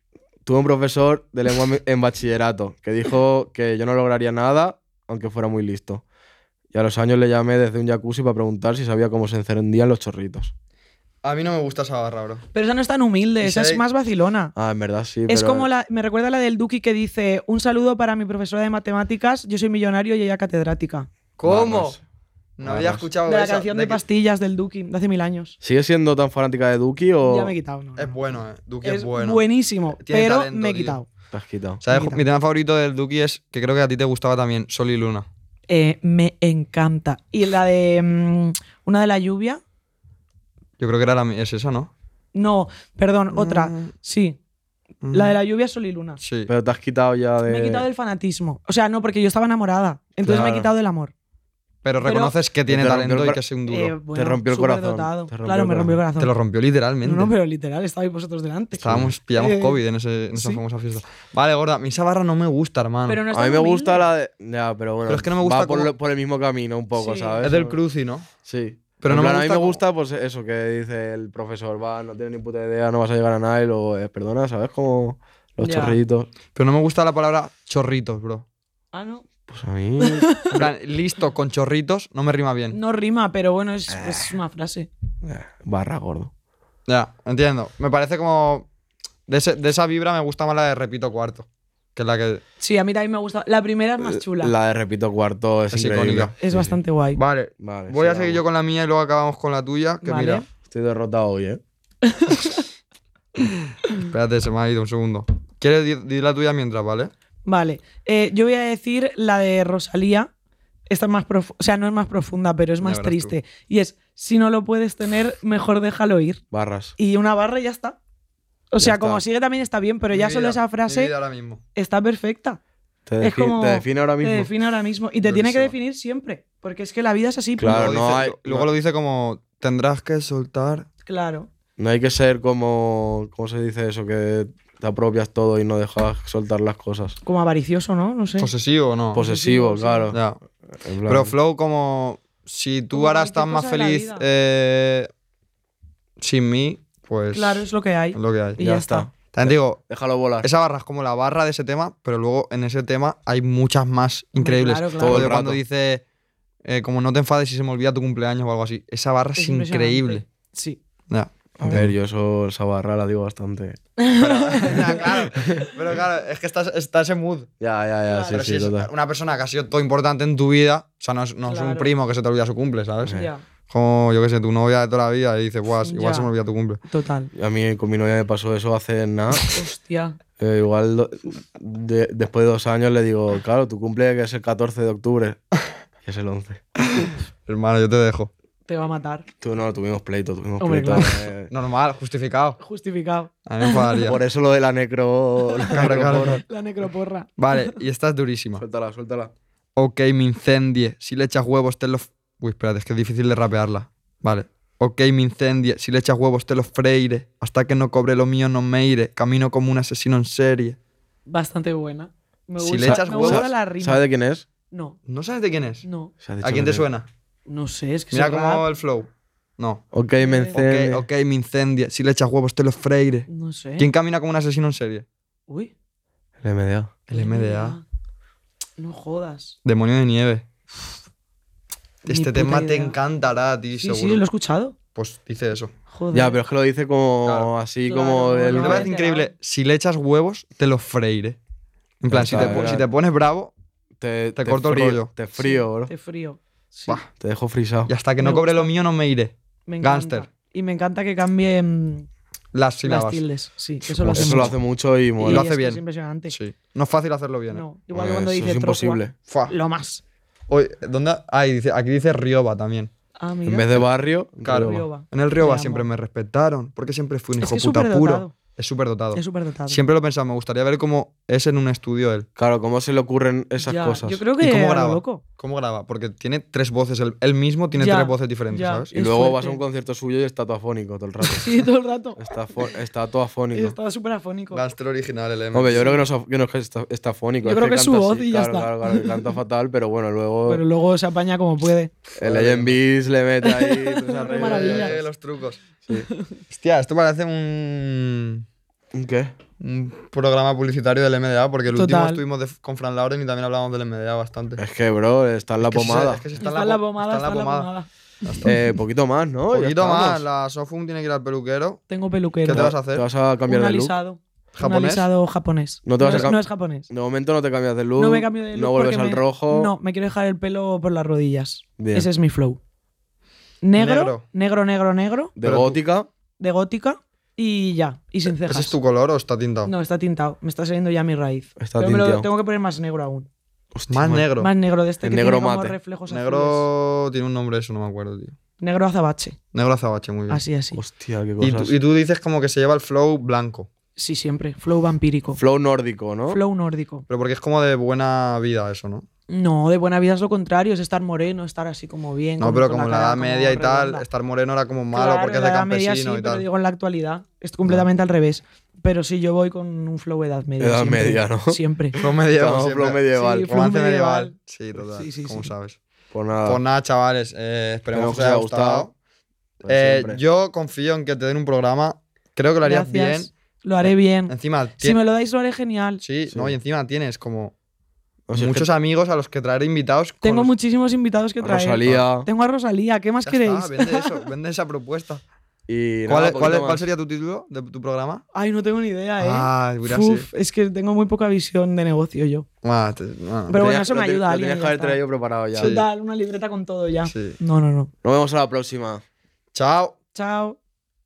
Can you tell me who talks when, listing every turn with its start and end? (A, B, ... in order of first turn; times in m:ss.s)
0:00.5-0:06.0 A
0:06.7-0:10.5 A
0:11.2-0:12.4 B
0:12.5-0:14.5 C
0:13.4-0:13.8 B
0:14.6-0:15.7 A
0:15.3-0:21.1 C
0:21.4-0:22.0 B
0:21.4-0:22.0 A
0:22.6-0:24.0 B
0:22.6-0:23.1 A
0:23.2-0:25.6 C
0:25.6-0:27.5 A
0:27.2-0:31.1 C
0:28.0-0:29.4 B
0:30.0-0:31.0 B
0:31.3-0:31.8 A
0:31.8-0:35.3 B
0:31.9-0:32.2 C
0:35.7-0:39.6 C
0:40.8-0:41.9 B
0:42.3-0:44.4 C
0:43.3-0:43.9 B
0:45.0-0:45.4 B
0:45.1-0:46.2 C
0:46.2-0:46.5 B
0:46.5-0:47.9 A
0:47.4-0:51.1 C
0:50.2-0:50.7 A
0:50.2-0:50.6 B
0:51.8-0:54.0 B
0:52.0-0:52.4 C
0:52.7-0:53.4 A
0:53.7-0:56.4 C
0:54.1-0:56.0 A
0:56.2-0:57.3 B
0:57.0-0:59.8 C
0:58.8-0:59.1 A
0:58.8-1:03.2 B
1:00.3-1:00.6 C
1:03.0-1:04.1 C
1:03.3-1:07.8 A
1:05.1-1:05.9 B
1:07.0-1:07.5 C
1:07.4-1:08.3 B
1:08.4-1:16.3 A
1:09.0-1:09.8 B
1:15.6-1:16.0 C
1:16.5-1:18.5 B
1:18.9-1:19.2 C
1:19.5-1:20.3 A
1:20.0-1:20.7 C
1:20.5-1:22.8 B
1:22.7-1:24.9 C
1:23.9-1:24.4 A
1:25.2-1:26.3 A
1:26.9-1:28.7 B
1:29.3-1:32.4 B
1:32.6-1:34.6 C
1:34.0-1:36.8 A
1:35.7-1:36.4 B
1:36.4-1:37.2 C
1:37.1-1:40.4 B
1:37.6-1:38.4 A
1:40.0-1:40.4 C
1:40.7-1:41.6 A
1:42.1-1:42.6 C
1:43.9-1:47.1 B
1:47.5-1:50.3 C
1:50.9-1:56.4 C
1:52.8-1:53.4 B
1:56.5-1:57.0 A
1:57.0-1:58.0 C
1:58.7-2:01.2 C
1:58.8-1:59.2 A
2:00.1-2:01.6 B
2:01.7-2:02.6 C
2:03.1-2:04.5 A
2:03.2-2:08.0 C
2:05.2-2:05.7 B
2:07.6-2:08.7 A
2:07.6-2:10.9 B
2:11.0-2:11.5 C
2:11.8-2:17.2 A
2:17.2-2:18.5 C
2:18.4-2:19.2 B
2:19.1-2:20.2 A
2:19.2-2:20.2 C
2:20.1-2:20.4 B
2:20.8-2:21.4 A
2:21.1-2:25.1 B
2:22.9-2:24.3 C
2:26.2-2:28.6 B
2:27.3-2:29.1 C
2:28.6-2:30.5 A
2:29.3-2:29.8 B
2:30.4-2:36.0 B
2:34.4-2:35.3 C
2:35.0-2:35.6 A
2:36.6-2:40.3 B
2:39.4-2:40.8 C
2:41.1-2:42.0 B
2:41.6-2:43.8 A
2:44.0-2:45.5 C
2:44.2-2:47.5 B
2:45.4-2:45.7 A
2:47.6-2:48.9 A
2:48.1-2:48.5 C
2:48.3-2:56.8 B
2:51.4-2:51.9 C
2:53.1-2:53.4 C
2:55.8-2:56.3 C
2:56.9-2:57.3 C
2:57.3-2:59.6 A
2:59.3-3:00.2 C
3:00.4-3:05.4 A
3:06.0-3:06.6 A
3:07.0-3:08.3 B
3:08.7-3:09.3 C
3:09.4-3:11.5 A
3:10.6-3:11.3 C
3:11.5-3:12.6 B
3:12.6-3:14.1 C
3:13.5-3:14.2 B
3:14.1-3:16.4 A
3:15.5-3:17.7 C
3:15.7-3:16.4 B
3:17.4-3:18.6 B
3:18.6-3:19.3 A
3:19.8-3:30.8 B
3:31.3-3:34.1 C
3:32.6-3:33.5 B
3:32.9-3:34.4 A
3:34.7-3:35.0 C
3:35.1-3:35.8 B
3:35.8-3:36.1 C
3:36.2-3:36.9 A
3:36.4-3:37.1 B
3:37.5-3:38.7 C
3:38.1-3:39.8 B
3:39.9-3:41.1 A
3:40.2-3:40.6 C
3:40.5-3:45.0 B
3:43.3-3:43.9 C
3:45.5-3:45.7 C
3:46.4-3:47.0 A
3:47.1-3:47.8 B
3:47.1-3:47.8 C
3:48.8-3:49.6 C
3:49.6-3:50.5 B
3:52.0-3:54.2 B
3:52.1-3:53.0 C
3:53.8-3:54.8 C
3:55.0-3:55.7 B
3:55.9-3:56.4 C
3:56.1-3:58.9 A
3:57.2-3:57.5 B
3:57.9-3:59.3 C
3:58.6-4:01.4 B
4:02.0-4:03.5 B
4:02.1-4:02.9 A
4:04.0-4:05.9 A
4:04.4-4:05.1 B
4:05.4-4:07.0 C
4:07.2-4:07.9 A
4:07.9-4:10.3 B
4:08.2-4:08.7 C
4:09.7-4:12.1 C
4:12.5-4:13.2 B
4:12.8-4:14.5 C
4:13.9-4:14.5 B
4:14.1-4:15.5 A
4:15.2-4:16.4 C
4:15.2-4:17.6 B
4:17.5-4:20.0 C
4:17.9-4:19.2 A
4:19.3-4:19.5 B
4:20.5-4:22.9 B
4:23.2-4:23.9 C
4:23.5-4:24.8 A
4:24.4-4:32.3 B
4:24.5-4:25.9 C
4:27.4-4:28.4 C
4:29.1-4:29.8 C
4:32.4-4:34.3 A
4:33.6-4:35.2 C
4:34.4-4:38.9 B
4:37.8-4:39.6 C
4:38.9-4:43.8 A
4:41.2-4:42.8 C
4:43.5-4:44.6 C
4:44.5-4:45.9 B
4:45.5-4:50.6 A
4:45.8-4:46.0 C
4:47.4-4:49.4 C
4:50.4-4:51.9 C
4:52.2-4:55.0 A
4:52.2-4:52.8 B
4:53.4-4:55.0 C
4:54.2-4:55.6 B
4:55.9-4:56.4 C
4:56.5-4:58.4 B
4:58.9-4:59.3 A
4:59.6-5:04.6 B
5:01.7-5:02.2 C
5:04.6-5:06.3 A
5:05.6-5:07.7 B
5:06.4-5:08.7 C
5:08.2-5:08.6 B
5:08.4-5:10.2 A
5:09.5-5:11.8 B
5:11.9-5:12.7 C
5:12.4-5:13.1 B
5:12.5-5:13.9 A
5:13.5-5:16.9 C
5:14.6-5:15.1 B
5:15.9-5:19.7 A
5:18.0-5:22.6 C
5:21.8-5:22.1 A
5:23.6-5:25.4 C
5:23.8-5:24.2 B
5:25.4-5:26.1 A
5:25.4-5:25.8 B
5:26.4-5:28.8 C
5:28.3-5:29.7 B
5:29.6-5:33.3 C
5:31.6-5:32.3 A
5:33.7-5:34.3 A
5:33.9-5:34.5 B
5:34.4-5:36.7 C
5:35.0-5:35.8 A
5:36.1-5:38.4 B
5:38.6-5:39.4 C
5:39.5-5:40.4 B
5:40.3-5:40.8 C
5:40.7-5:41.8 A
5:41.4-5:43.7 B
5:44.0-5:45.4 C
5:45.4-5:46.4 A
5:46.3-5:47.1 C
5:47.1-5:49.1 B
5:49.3-5:54.1 C
5:52.4-5:56.4 B
5:54.9-6:02.0 C
6:00.6-6:03.5 A
6:01.9-6:05.8 B
6:03.1-6:05.5 C
6:06.1-6:06.6 A
6:06.4-6:08.9 B
6:07.9-6:08.9 A
6:09.6-6:13.3 B
6:09.6-6:10.2 A
6:12.6-6:16.0 C
6:13.8-6:15.0 B
6:16.0-6:17.5 B
6:16.3-6:16.6 A
6:18.3-6:18.7 A
6:18.3-6:20.5 B
6:20.2-6:24.1 C
6:21.4-6:22.3 A
6:23.2-6:25.2 B
6:25.7-6:26.9 A
6:26.1-6:28.2 B
6:28.3-6:32.5 C
6:29.2-6:30.3 B
6:32.6-6:33.6 B
6:33.5-6:35.0 C
6:33.5-6:35.8 A
6:35.5-6:37.9 C
6:35.6-6:35.9 B
6:37.0-6:37.4 B
6:38.0-6:39.0 A
6:39.5-6:40.0 B
6:40.1-6:40.6 C